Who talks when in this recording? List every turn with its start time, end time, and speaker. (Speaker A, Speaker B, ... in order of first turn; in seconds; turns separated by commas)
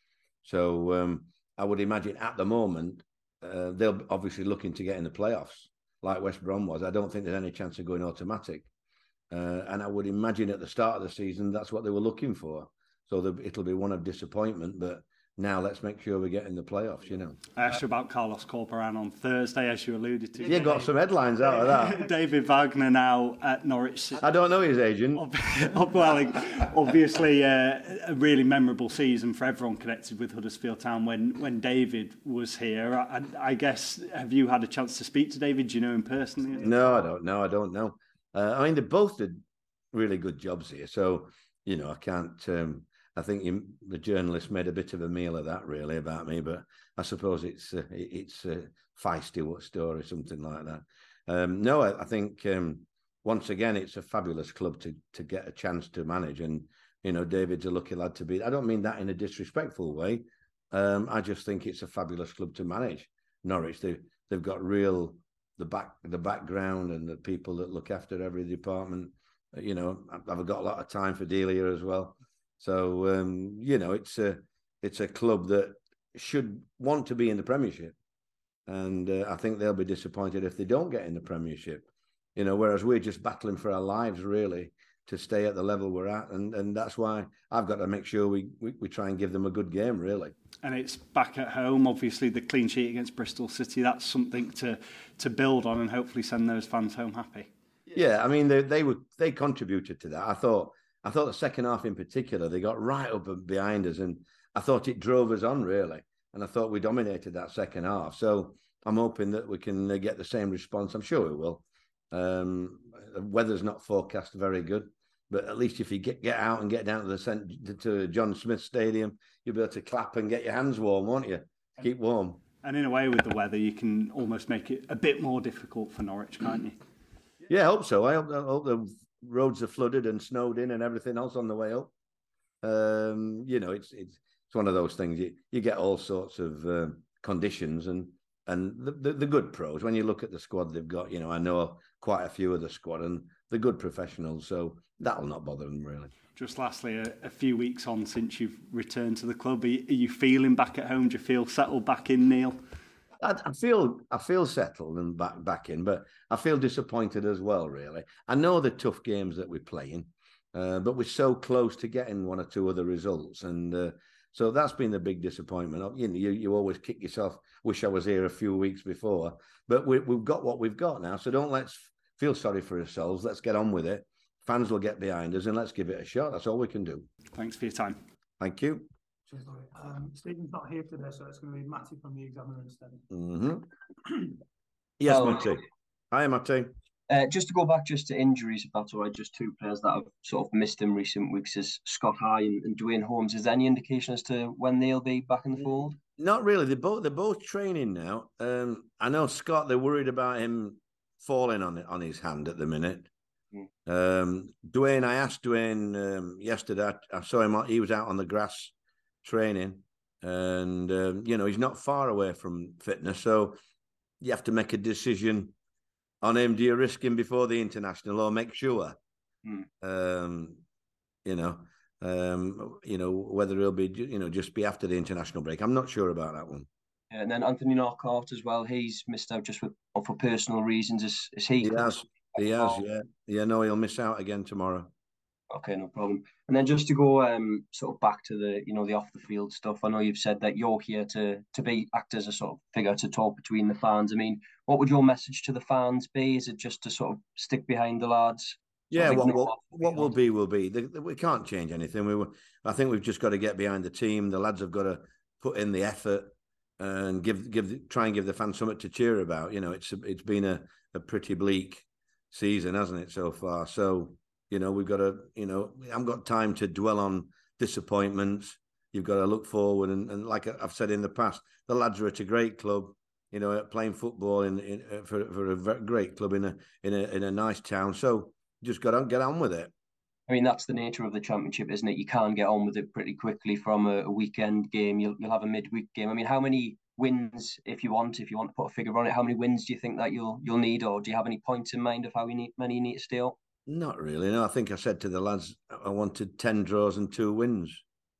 Speaker A: 0.4-8.7, Speaker A: 9.3-17.4, Speaker B: 17.6-20.9, Speaker A: 20.4-22.0, Speaker B: 21.4-24.3, Speaker A: 24.2-25.2, Speaker B: 25.1-36.8, Speaker A: 36.6-39.4, Speaker A: 39.9-77.9, Speaker A: 78.7-90.3, Speaker B: 90.6-97.5, Speaker A: 97.9-122.4, Speaker B: 122.6-126.8, Speaker A: 127.5-131.9, Speaker A: 132.6-146.1, Speaker B: 146.3-152.6, Speaker A: 153.2-177.1, Speaker B: 177.3-178.0, Speaker A: 178.4-178.9, Speaker C: 179.3-183.0, Speaker A: 183.1-183.7, Speaker A: 185.0-186.7, Speaker D: 185.1-185.5, Speaker D: 187.1-196.0, Speaker A: 196.2-203.1, Speaker A: 203.9-213.6, Speaker A: 214.2-215.5, Speaker A: 216.2-219.0, Speaker A: 219.8-220.6, Speaker A: 221.2-226.7, Speaker D: 227.1-232.8, Speaker A: 231.6-234.9, Speaker D: 235.5-250.1, Speaker A: 248.9-279.7, Speaker D: 280.3-293.4, Speaker A: 293.7-297.8